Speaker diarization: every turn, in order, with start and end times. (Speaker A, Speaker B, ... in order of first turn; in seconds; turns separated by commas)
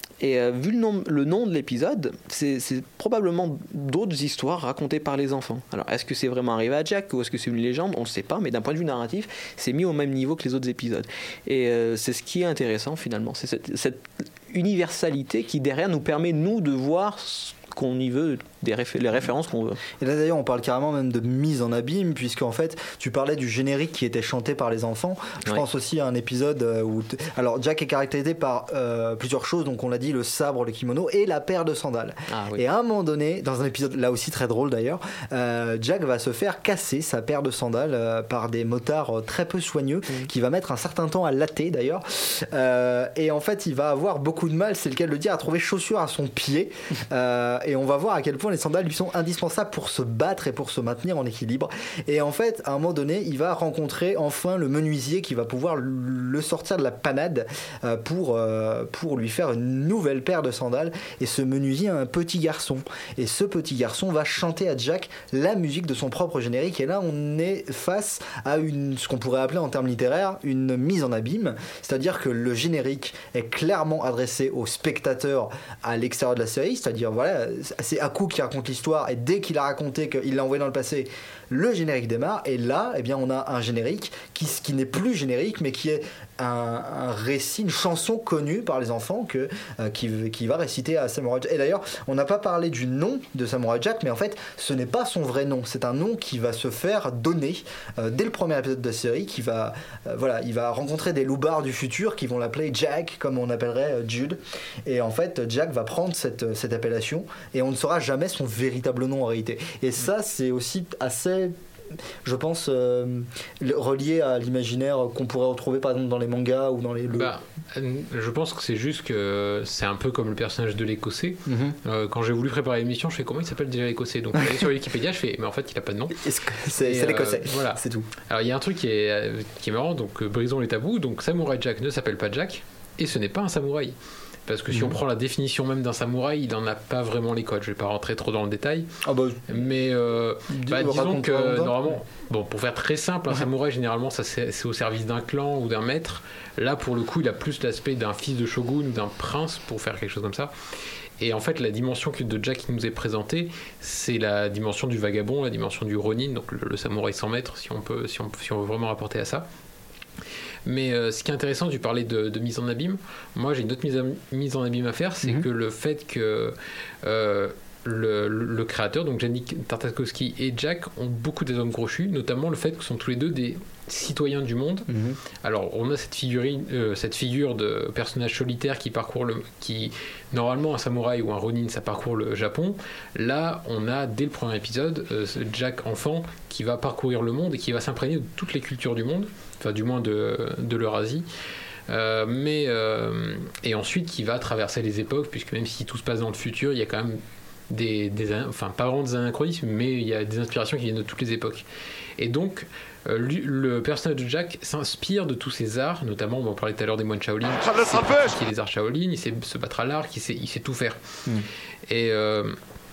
Speaker A: 0.2-19.8, Speaker B: 20.0-111.6, Speaker A: 32.3-32.6, Speaker B: 112.2-117.3, Speaker C: 117.1-126.2, Speaker B: 121.5-121.8, Speaker B: 126.2-128.1, Speaker C: 126.8-134.0, Speaker C: 134.5-138.9, Speaker B: 134.7-135.0, Speaker B: 139.1-139.6, Speaker C: 139.5-150.5, Speaker B: 140.5-141.9, Speaker C: 151.2-159.5, Speaker C: 160.7-174.9, Speaker B: 174.9-175.2, Speaker C: 175.4-191.3, Speaker C: 191.9-197.2, Speaker C: 197.7-201.7, Speaker C: 202.2-211.0, Speaker C: 211.9-212.6